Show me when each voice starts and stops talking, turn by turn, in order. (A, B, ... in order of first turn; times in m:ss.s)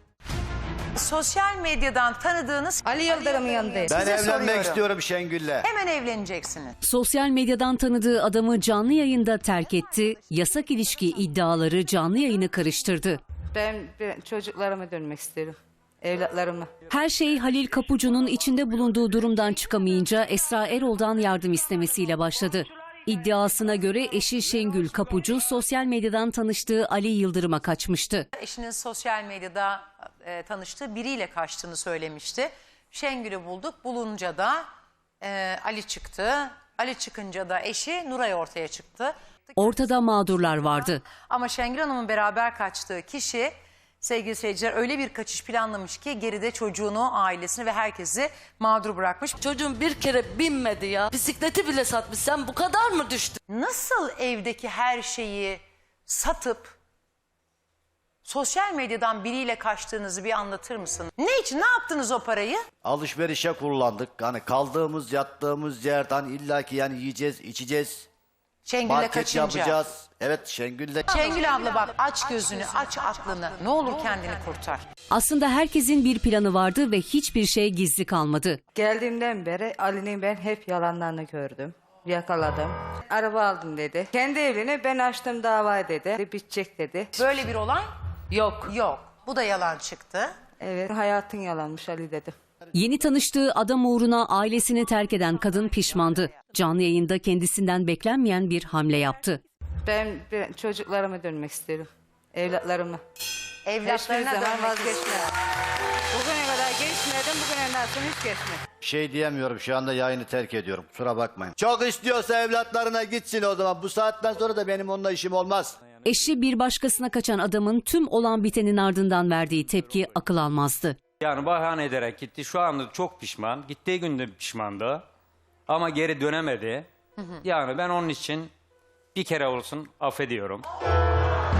0:01.0-0:04.8 A
0:02.8-0:04.0 B
0:03.9-0:05.7 C
0:05.6-0:06.8 A
0:06.8-0:13.2 D
0:13.5-0:16.7 B
0:16.9-0:28.2 D
0:28.3-0:34.6 A
0:35.2-0:39.9 A
0:39.6-0:41.0 D
0:40.6-0:49.4 A
0:49.4-0:53.4 E
0:53.5-0:56.8 A
0:58.2-1:02.6 A
1:02.8-1:08.1 C
1:08.6-1:09.8 A
1:08.8-1:11.1 C
1:11.1-1:14.8 A
1:15.1-1:18.6 D
1:18.7-1:27.2 B
1:27.2-1:27.9 A
1:28.3-1:28.7 B
1:28.6-1:30.3 A
1:30.6-1:32.3 B
1:32.7-1:39.4 D
1:39.8-1:43.0 B
1:43.6-1:45.3 A
1:43.8-1:45.3 B
1:46.1-1:48.6 B
1:48.8-1:55.7 C
1:56.0-2:01.0 D
2:01.2-2:05.0 F
2:05.7-2:06.9 F
2:07.4-2:08.5 F
2:09.1-2:10.6 F